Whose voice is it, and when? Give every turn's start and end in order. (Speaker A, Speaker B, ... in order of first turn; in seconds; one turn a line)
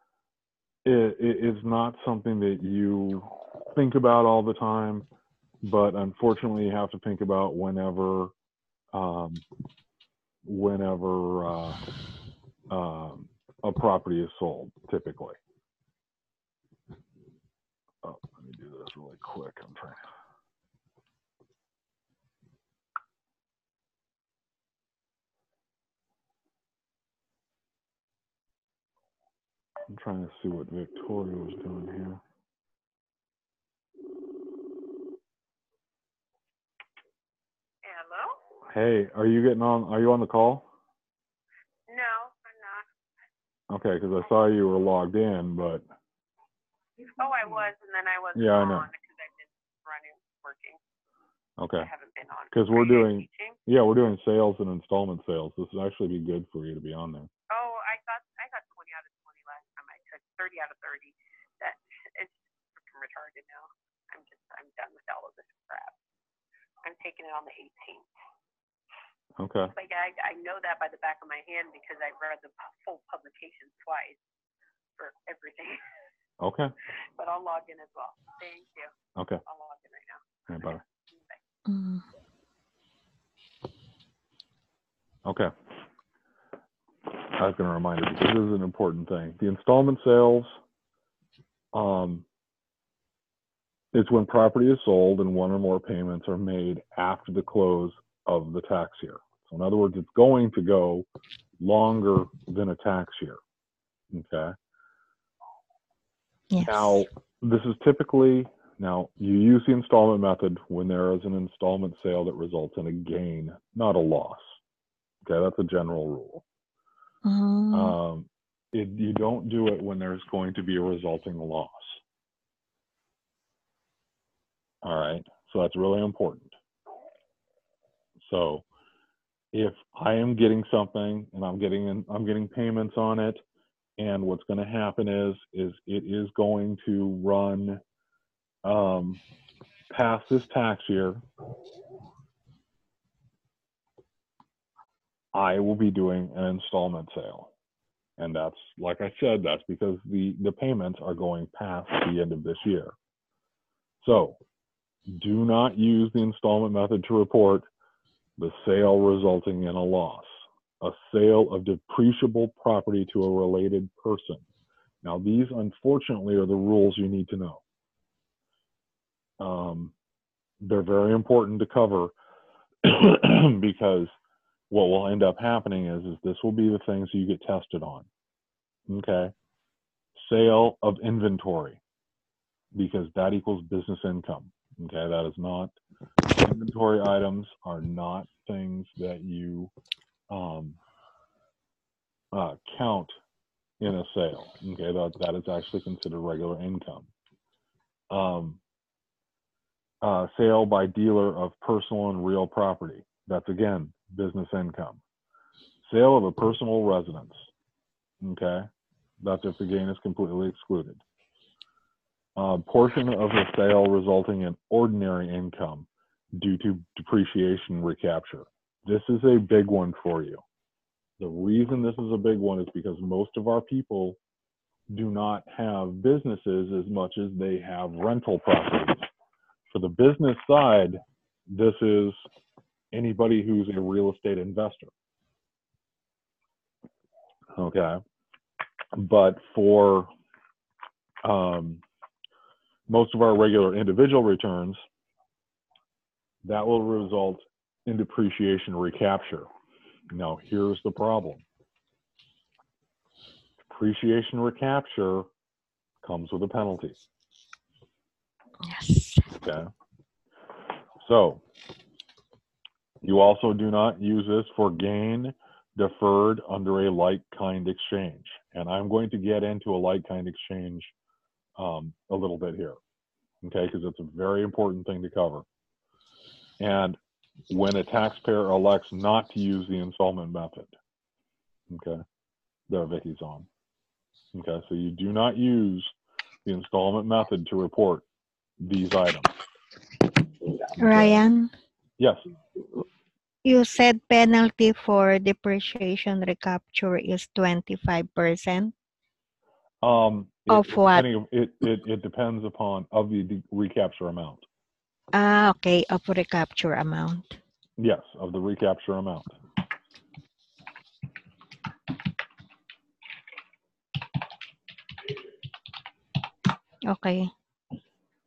Speaker A: 0.8-5.0
Speaker A: 5.6-8.3
Speaker A: 8.9-9.4
Speaker A: 10.4-11.8
Speaker A: 12.7-15.4
Speaker A: 18.0-20.0
Speaker A: 29.9-32.2
Speaker B: 37.8-38.4
Speaker A: 38.7-40.6
Speaker B: 41.9-42.9
Speaker A: 43.7-45.8
Speaker B: 47.0-50.8
Speaker A: 48.3-48.9
Speaker A: 51.6-51.9
Speaker B: 51.8-53.6
Speaker A: 52.5-57.3
Speaker B: 57.5-65.9
Speaker B: 66.8-68.0
Speaker A: 69.4-69.7
Speaker B: 69.7-74.2
Speaker B: 75.0-75.8
Speaker A: 76.4-76.7
Speaker B: 77.2-78.9
Speaker A: 79.2-79.4
Speaker B: 79.4-81.4
Speaker A: 80.5-80.8
Speaker C: 81.7-82.0
Speaker A: 85.2-85.5
Speaker A: 87.3-90.5
Speaker A: 91.7-92.2
Speaker A: 93.9-101.0
Speaker A: 101.6-103.4
Speaker A: 104.1-104.5
Speaker C: 106.5-107.0
Speaker A: 106.6-114.6
Speaker A: 115.2-116.4
Speaker C: 117.2-118.0
Speaker A: 117.7-122.0
Speaker A: 124.8-126.5
Speaker A: 128.2-128.6
Speaker A: 129.5-133.4
Speaker A: 134.0-137.8
Speaker A: 138.6-139.2
Speaker A: 139.9-141.2
Speaker A: 145.3-147.5
Speaker A: 148.2-152.9
Speaker A: 154.0-154.4
Speaker A: 155.1-157.7
Speaker A: 158.4-164.4
Speaker A: 165.0-167.6
Speaker A: 169.4-169.9
Speaker A: 170.6-172.1
Speaker A: 172.8-174.1
Speaker A: 174.7-178.1
Speaker A: 178.9-179.3
Speaker A: 180.2-181.8
Speaker A: 182.7-185.7
Speaker A: 186.3-189.7
Speaker A: 190.3-190.8
Speaker A: 192.3-193.2
Speaker A: 193.8-197.1
Speaker A: 198.1-198.6
Speaker A: 200.0-205.0
Speaker A: 205.8-207.5
Speaker A: 208.2-208.7
Speaker A: 209.2-211.0
Speaker A: 212.3-220.4
Speaker A: 221.2-224.2
Speaker A: 224.9-229.1
Speaker A: 229.7-232.2
Speaker A: 232.9-234.9
Speaker A: 237.6-238.0
Speaker A: 238.9-240.1
Speaker A: 241.2-241.8
Speaker A: 242.9-244.8
Speaker A: 246.4-249.5
Speaker A: 250.1-251.4
Speaker A: 253.7-255.2
Speaker A: 256.0-257.0
Speaker C: 258.6-259.3
Speaker A: 259.4-259.7
Speaker A: 261.0-261.4
Speaker A: 263.0-270.9
Speaker A: 271.6-272.8
Speaker A: 273.4-275.4
Speaker A: 276.6-277.0
Speaker A: 277.5-280.7
Speaker A: 281.7-282.0
Speaker A: 282.7-283.5
Speaker A: 284.3-285.9
Speaker A: 286.4-288.0
Speaker A: 288.6-289.3
Speaker A: 290.8-291.2
Speaker C: 290.8-291.5
Speaker C: 293.4-298.7
Speaker A: 299.8-304.4
Speaker C: 300.5-301.1
Speaker C: 305.1-307.4
Speaker A: 307.8-309.3
Speaker C: 316.8-317.3